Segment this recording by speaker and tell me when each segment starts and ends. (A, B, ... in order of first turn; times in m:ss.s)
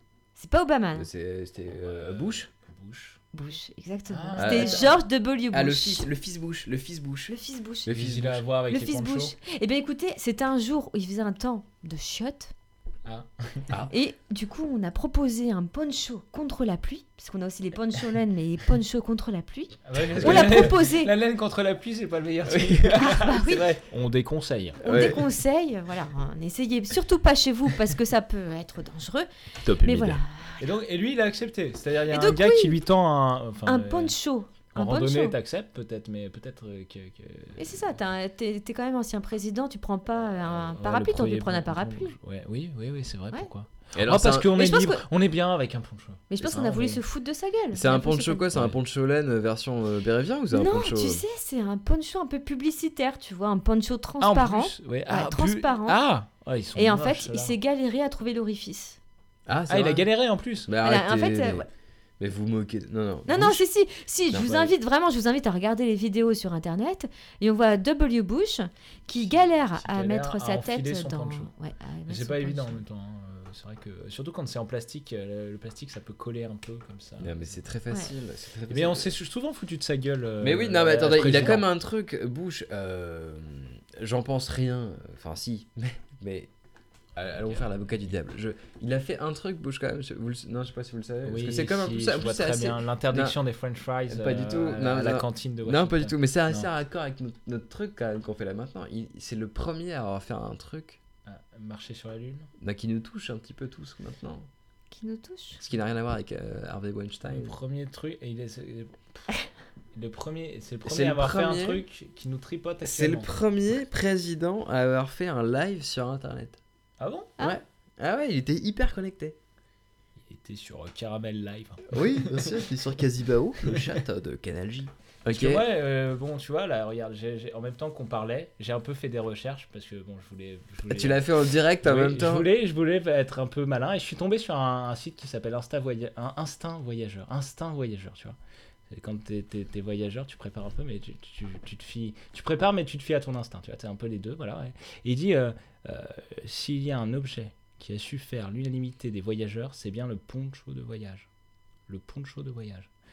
0:00.4-0:01.1 A
0:00.9-0:02.5 B
0:01.8-0:03.2 C
0:03.3-0:06.1 A
0:04.1-0:04.9 C
0:04.4-0:05.0 B
0:05.5-0:08.4 B
0:07.3-0:08.0 A
0:07.9-0:09.3 C
0:08.7-0:12.5 A
0:13.0-0:13.7 C
0:13.9-0:21.1 A
0:19.8-0:24.8 C
0:20.2-0:20.8 B
0:22.4-0:23.1 B
0:23.0-0:23.7 A
0:24.8-0:25.2 B
0:24.8-0:29.3 A
0:29.6-0:30.2 B
0:29.8-0:30.6 A
0:30.6-0:34.1 C
0:32.1-0:32.8 A
0:33.6-0:35.4 A
0:34.7-0:37.9 C
0:37.6-0:42.2 A
0:40.4-0:47.0 C
0:43.9-0:44.6 B
0:44.5-0:45.0 A
0:46.3-0:48.5 A
0:47.7-0:51.2 B
0:50.5-0:56.0 A
0:54.2-0:57.5 C
0:56.8-0:59.0 A
0:59.5-1:00.0 B
0:59.7-1:00.7 C
1:00.6-1:01.6 B
1:00.8-1:01.7 A
1:02.2-1:03.6 B
1:03.2-1:12.8 A
1:04.3-1:04.7 B
1:09.2-1:11.5 C
1:12.1-1:17.5 C
1:17.2-1:19.1 B
1:18.7-1:21.6 C
1:20.4-1:26.5 B
1:27.2-1:33.4 B
1:31.2-1:36.7 C
1:34.1-1:41.0 B
1:41.2-1:42.5 C
1:42.6-1:44.5 B
1:44.9-1:45.6 A
1:45.6-1:47.5 B
1:47.3-1:49.3 C
1:49.9-1:53.3 C
1:50.8-1:51.8 B
1:52.8-1:56.6 B
1:57.0-1:57.3 C
1:57.4-1:59.4 B
2:00.2-2:02.6 C
2:01.9-2:05.6 B
2:05.3-2:11.2 C
2:10.9-2:12.5 B
2:11.8-2:18.4 C
2:18.9-2:31.3 C
2:31.9-2:32.9 C